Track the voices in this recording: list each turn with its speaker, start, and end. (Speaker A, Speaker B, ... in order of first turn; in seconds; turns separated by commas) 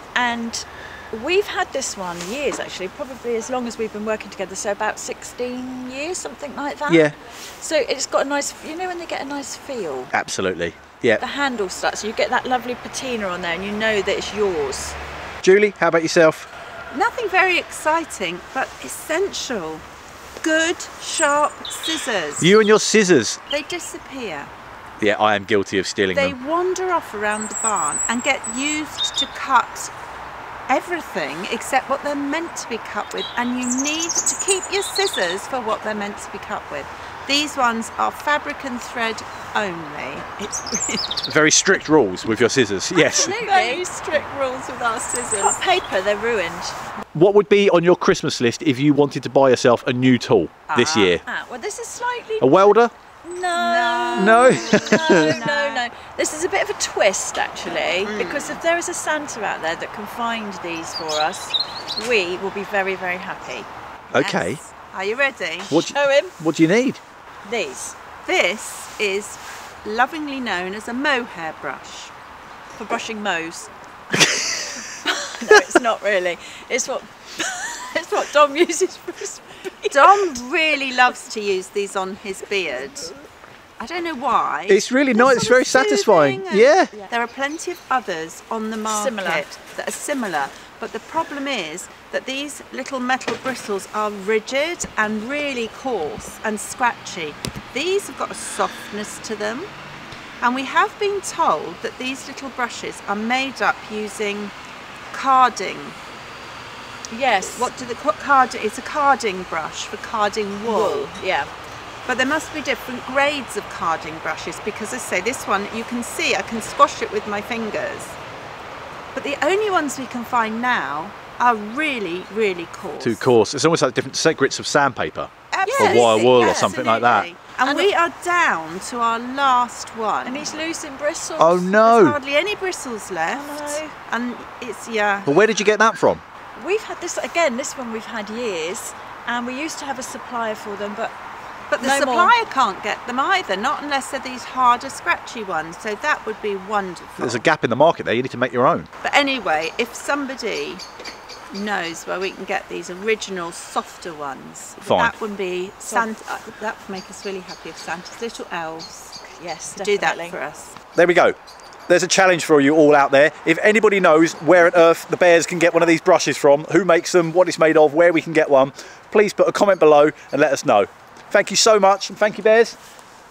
Speaker A: 0.1-10.1, Speaker B: 6.9-7.1, Speaker B: 10.1-11.2, Speaker A: 11.2-15.0, Speaker B: 15.4-16.5, Speaker C: 16.9-19.9, Speaker C: 20.4-22.4, Speaker B: 22.4-23.4, Speaker C: 23.5-24.5, Speaker B: 25.0-26.4, Speaker C: 26.1-29.9, Speaker C: 30.7-41.2, Speaker B: 41.2-43.4, Speaker A: 43.0-43.9, Speaker C: 43.1-45.6, Speaker A: 45.3-46.8, Speaker B: 47.1-51.2, Speaker C: 50.7-51.2, Speaker A: 51.2-64.4, Speaker B: 52.4-52.9, Speaker C: 53.5-55.9, Speaker B: 54.1-55.3, Speaker C: 58.0-58.6, Speaker B: 64.1-64.6, Speaker C: 64.3-65.8, Speaker B: 65.7-67.0, Speaker A: 65.8-66.4, Speaker A: 67.4-68.0, Speaker C: 68.2-72.1, Speaker C: 72.8-73.7, Speaker A: 72.9-73.5, Speaker B: 74.2-74.8, Speaker A: 75.0-80.2, Speaker C: 79.9-83.1, Speaker C: 83.8-99.7, Speaker B: 84.7-86.9, Speaker A: 88.9-89.6, Speaker C: 100.4-104.5, Speaker C: 105.1-106.0, Speaker A: 107.1-107.7, Speaker C: 107.4-111.2, Speaker A: 110.6-111.5, Speaker C: 112.1-118.2, Speaker C: 119.1-123.3, Speaker B: 123.0-127.3, Speaker C: 125.5-130.6, Speaker A: 125.6-126.0, Speaker A: 127.6-127.9, Speaker A: 130.2-131.8, Speaker B: 131.4-132.2, Speaker C: 131.8-135.3, Speaker A: 133.3-134.0, Speaker B: 135.2-136.2, Speaker A: 136.6-141.1, Speaker C: 141.7-147.4, Speaker A: 141.8-142.4, Speaker B: 147.2-148.9, Speaker C: 149.0-150.8, Speaker C: 151.5-159.2, Speaker B: 154.8-155.1, Speaker A: 155.8-156.2, Speaker A: 159.2-160.4, Speaker C: 159.7-160.8, Speaker B: 160.9-161.4, Speaker B: 161.9-172.8